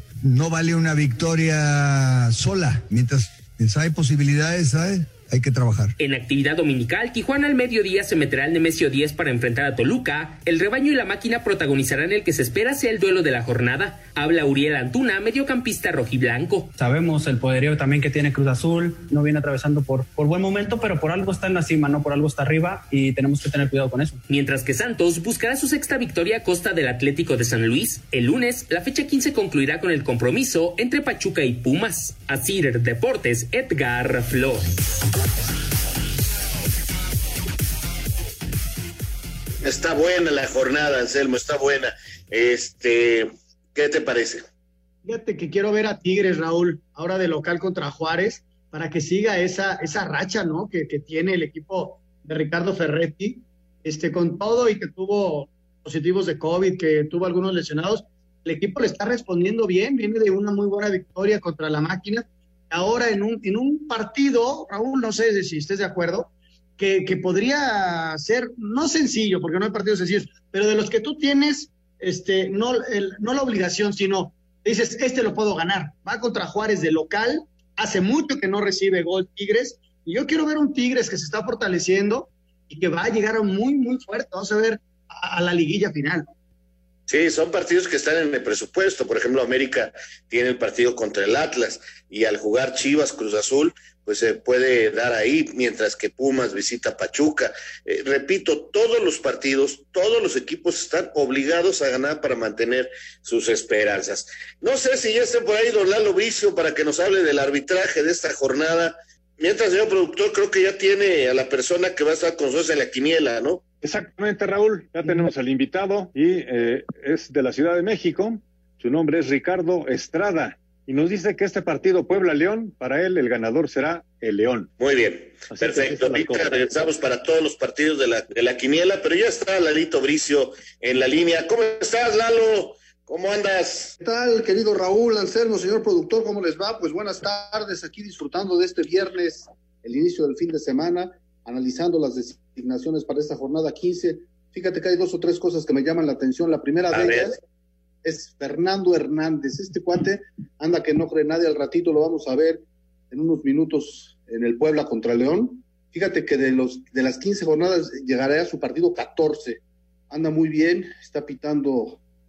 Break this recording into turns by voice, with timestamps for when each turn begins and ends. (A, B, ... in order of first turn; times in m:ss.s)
0:00.2-0:05.9 A
0:06.0-0:16.7 B
0:16.8-0:24.2 C
0:24.3-0:34.7 B
0:39.6-0:44.4 D
0:45.0-1:26.3 E
1:27.1-1:53.6 D
1:53.8-2:04.7 F
2:04.8-2:13.9 D
2:05.5-2:06.7 F
2:14.0-2:27.4 G
2:26.9-2:27.3 D
2:28.0-2:42.0 G